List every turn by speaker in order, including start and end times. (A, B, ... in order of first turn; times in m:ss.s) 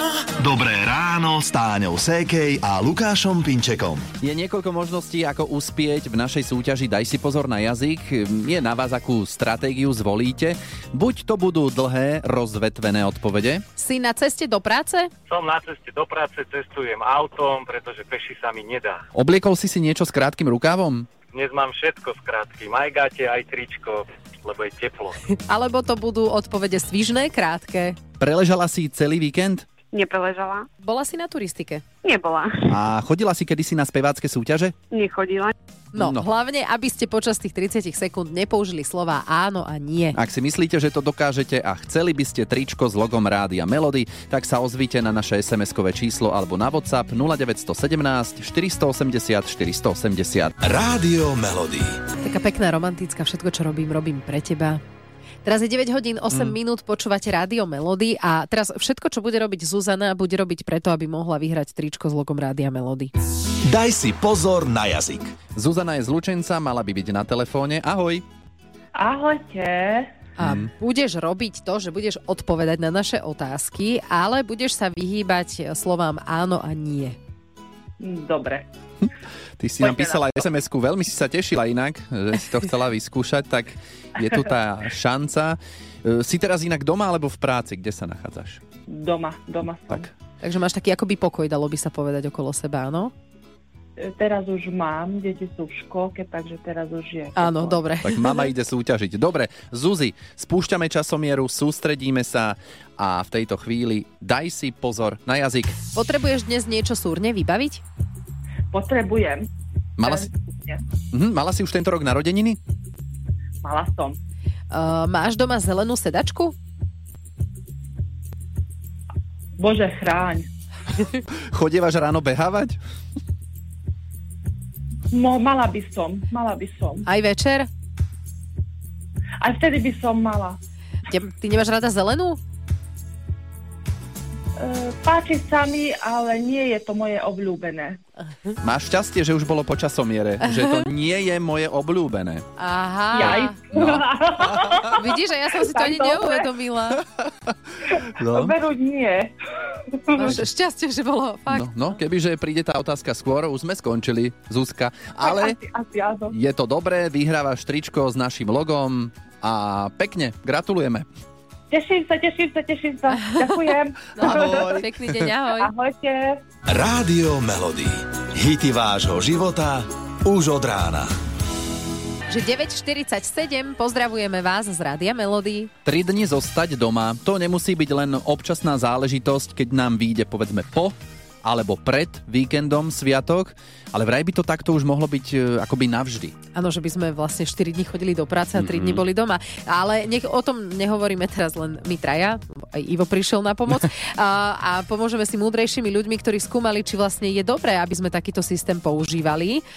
0:00.4-0:04.0 A
0:04.2-0:13.6 B
0:13.8-0:15.1 C
0:15.3-0:19.0 D
0:19.1-0:21.1 B
0:21.3-0:25.1 D
0:25.4-0:28.0 C
0:28.2-0:29.7 B
0:29.9-0:30.6 E
0:30.8-0:31.8 C
0:32.0-0:32.5 E
0:32.7-0:34.7 B
0:34.9-0:35.5 E
0:35.9-0:40.2 C
0:36.0-0:36.2 B
0:40.1-0:50.6 B
0:50.7-0:51.8 A
0:52.2-0:54.8 C
0:55.4-1:03.1 C
0:56.3-0:56.6 B
1:03.7-1:05.2 A
1:05.5-1:08.2 B
1:09.0-1:10.1 F
1:10.4-1:17.2 C
1:10.4-1:10.7 B
1:18.0-1:18.6 F
1:19.0-1:28.6 B
1:19.8-1:20.2 F
1:28.9-1:30.1 F
1:30.4-1:33.1 C
1:34.0-1:37.8 F
1:37.3-1:38.5 C
1:38.0-1:45.8 B
1:45.9-1:47.8 C
1:48.7-1:49.5 F
1:50.0-1:50.3 B
1:50.0-1:50.8 F
1:51.1-1:52.6 B
1:53.6-1:54.2 F
1:54.7-1:56.5 C
1:59.6-2:00.5 F
2:01.3-2:02.8 B
2:05.1-2:07.0 F
2:07.0-2:07.7 C
2:09.4-2:10.6 F
2:11.1-2:12.4 C
2:14.6-2:18.0 F
2:18.6-2:22.4 B
2:22.6-2:23.6 C
2:23.1-2:24.3 F
2:23.7-2:24.0 B
2:24.9-2:27.0 C
2:25.7-2:26.4 F
2:28.2-2:28.5 B
2:28.4-2:29.3 F
2:30.1-2:31.7 C
2:31.5-2:35.6 B
2:35.2-2:36.3 F
2:36.3-2:41.0 B
2:41.7-2:44.6 F
2:44.1-2:45.7 C
2:44.2-2:45.1 B
2:45.6-2:46.2 F
2:46.7-2:51.0 A
2:52.3-2:55.7 C
2:55.8-3:06.3 B
3:06.5-3:19.6 C
3:08.6-3:09.0 B